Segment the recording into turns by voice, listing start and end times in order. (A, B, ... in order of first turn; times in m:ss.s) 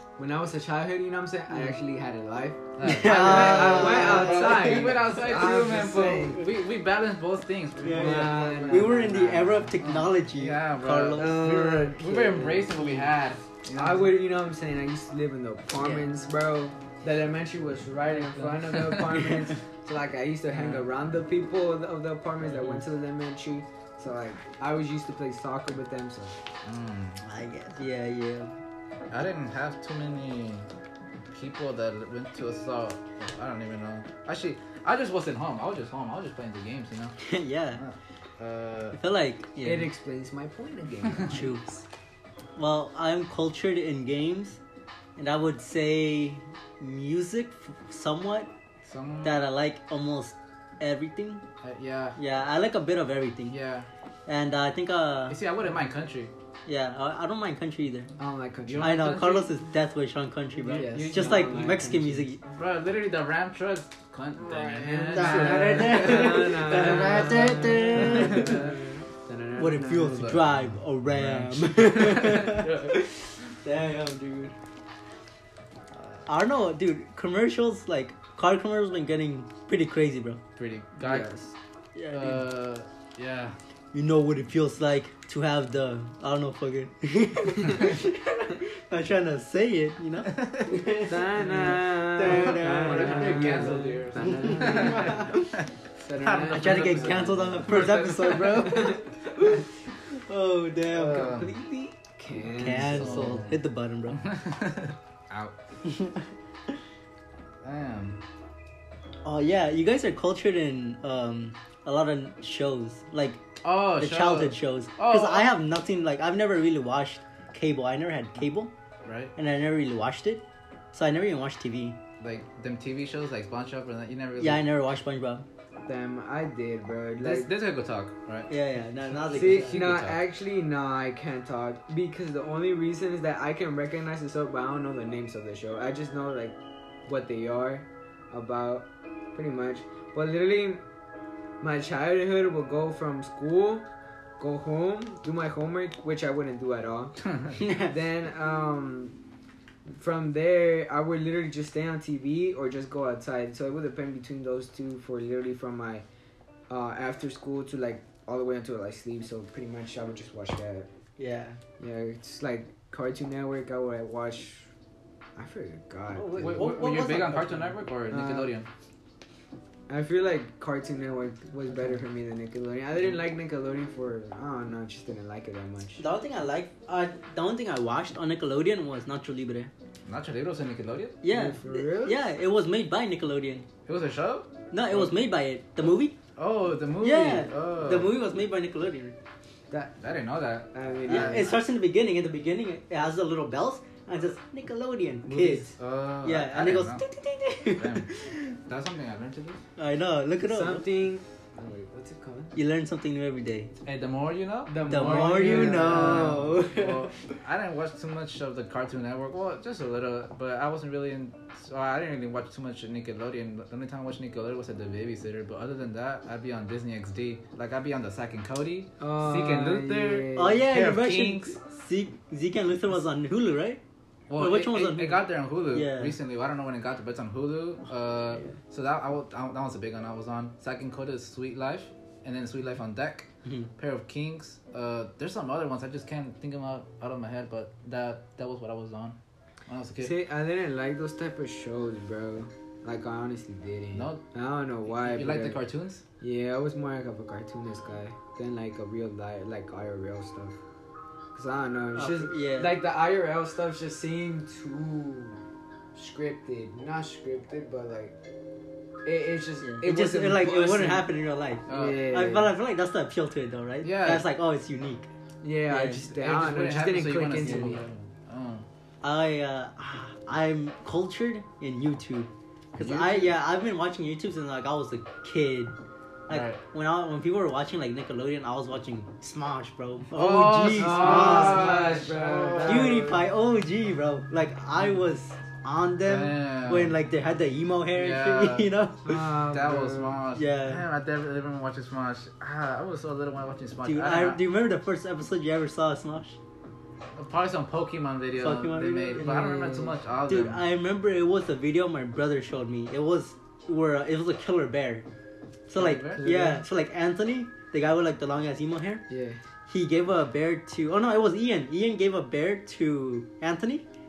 0:00.2-0:06.4 A
0:02.8-0:14.1 B
0:02.8-0:05.0 C
0:07.8-0:11.5 C
0:07.9-0:09.6 A
0:11.2-0:13.0 A
0:13.7-0:26.4 A
0:15.8-0:16.0 C
0:18.2-0:19.2 B
0:20.6-0:20.8 B
0:26.6-0:27.2 B
0:27.2-0:28.5 C
0:29.1-0:30.7 B
0:31.3-0:37.2 B
0:37.2-0:37.8 C
0:37.8-0:39.0 B
0:38.9-0:39.9 C
0:39.6-0:41.5 A
0:41.3-0:41.8 C
0:42.6-0:44.6 C
0:45.2-0:48.5 C
0:48.9-0:49.4 B
0:49.2-0:51.4 C
0:51.6-0:52.2 B
0:52.2-0:53.6 C
0:53.5-0:53.9 B
0:54.3-0:55.4 C
0:55.3-0:56.3 B
0:56.7-0:58.1 C
0:58.2-0:59.2 A
0:58.7-0:59.5 B
0:58.8-1:02.4 C
1:00.6-1:02.3 A
1:00.7-1:01.8 B
1:02.5-1:08.7 B
1:04.4-1:10.3 A
1:05.1-1:08.7 C
1:09.6-1:14.6 C
1:10.0-1:13.1 B
1:16.3-1:20.4 C
1:20.6-1:21.3 B
1:21.0-1:21.5 A
1:22.0-1:22.4 C
1:22.1-1:23.6 B
1:23.9-1:35.5 C
1:30.3-1:30.9 B
1:31.1-1:35.4 A
1:31.4-1:38.7 B
1:36.0-1:39.6 A
1:36.5-1:39.5 C
1:40.1-1:41.3 C
1:40.9-1:41.5 B
1:41.0-1:43.4 A
1:42.6-1:44.2 C
1:42.7-1:43.6 B
1:44.1-1:45.6 B
1:45.8-1:46.3 C
1:47.6-1:48.2 B
1:49.2-1:53.4 C
1:53.6-1:55.5 B
1:54.0-1:58.7 C
1:59.0-1:59.3 B
1:59.4-2:02.0 C
2:02.2-2:04.7 B
2:04.4-2:05.4 C
2:05.9-2:07.5 A
2:07.2-2:08.5 B
2:08.5-2:09.9 C
2:09.2-2:10.2 B
2:09.3-2:20.8 A
2:21.6-2:23.9 A
2:24.4-2:27.2 A
2:27.6-2:27.9 C
2:27.7-2:29.2 A
2:29.9-2:36.0 A
2:36.7-2:40.9 A
2:41.2-2:41.6 C
2:41.8-2:44.7 A
2:45.4-2:46.7 A
2:46.1-2:47.7 C
2:46.4-2:48.7 B
2:48.1-2:48.5 A
2:49.9-2:56.0 A
2:56.0-2:59.7 C
3:00.1-3:01.2 B
3:01.2-3:03.7 C
3:01.3-3:02.3 A
3:03.9-3:05.1 B
3:04.7-3:06.2 C
3:06.4-3:08.1 B
3:07.0-3:09.2 C
3:10.0-3:11.5 B
3:10.7-3:11.6 A
3:11.1-3:15.7 C
3:15.3-3:17.0 B
3:16.2-3:18.4 C
3:17.8-3:19.6 B
3:19.8-3:20.8 C
3:20.4-3:22.6 A
3:22.6-3:23.7 C
3:23.8-3:41.6 B
3:24.7-3:26.4 A
3:24.9-3:27.1 C
3:39.0-3:40.6 A
3:40.4-3:43.8 C
3:44.3-4:00.1 B
3:44.4-3:46.2 C
4:00.0-4:05.6 A
4:04.0-4:04.2 B
4:04.9-4:06.0 B
4:06.2-4:10.6 A
4:11.4-4:15.4 A
4:12.0-4:12.8 C
4:16.0-4:18.2 A
4:19.0-4:21.1 A
4:19.6-4:25.1 C
4:21.7-4:22.0 B
4:21.7-4:22.5 A
4:23.8-4:24.3 B
4:25.4-4:27.9 A
4:25.7-4:26.0 C
4:26.0-4:28.7 B
4:27.4-4:27.8 C
4:29.0-4:35.8 C
4:32.8-4:33.2 B
4:36.3-4:41.9 C
4:36.3-4:36.6 B
4:40.1-4:43.0 B
4:40.7-4:43.2 A
4:42.6-4:49.3 C
4:46.0-4:47.0 B
4:48.0-4:48.7 B
4:49.0-4:50.2 A
4:49.5-4:54.4 B
4:50.3-4:50.9 C
4:53.8-4:56.4 C
4:57.2-5:00.6 B
4:58.4-4:59.6 C
4:59.2-5:00.0 A
5:00.3-5:05.1 C
5:05.7-5:09.0 C
5:05.8-5:06.2 B
5:06.2-5:06.6 A
5:09.1-5:09.4 A
5:09.7-5:13.8 C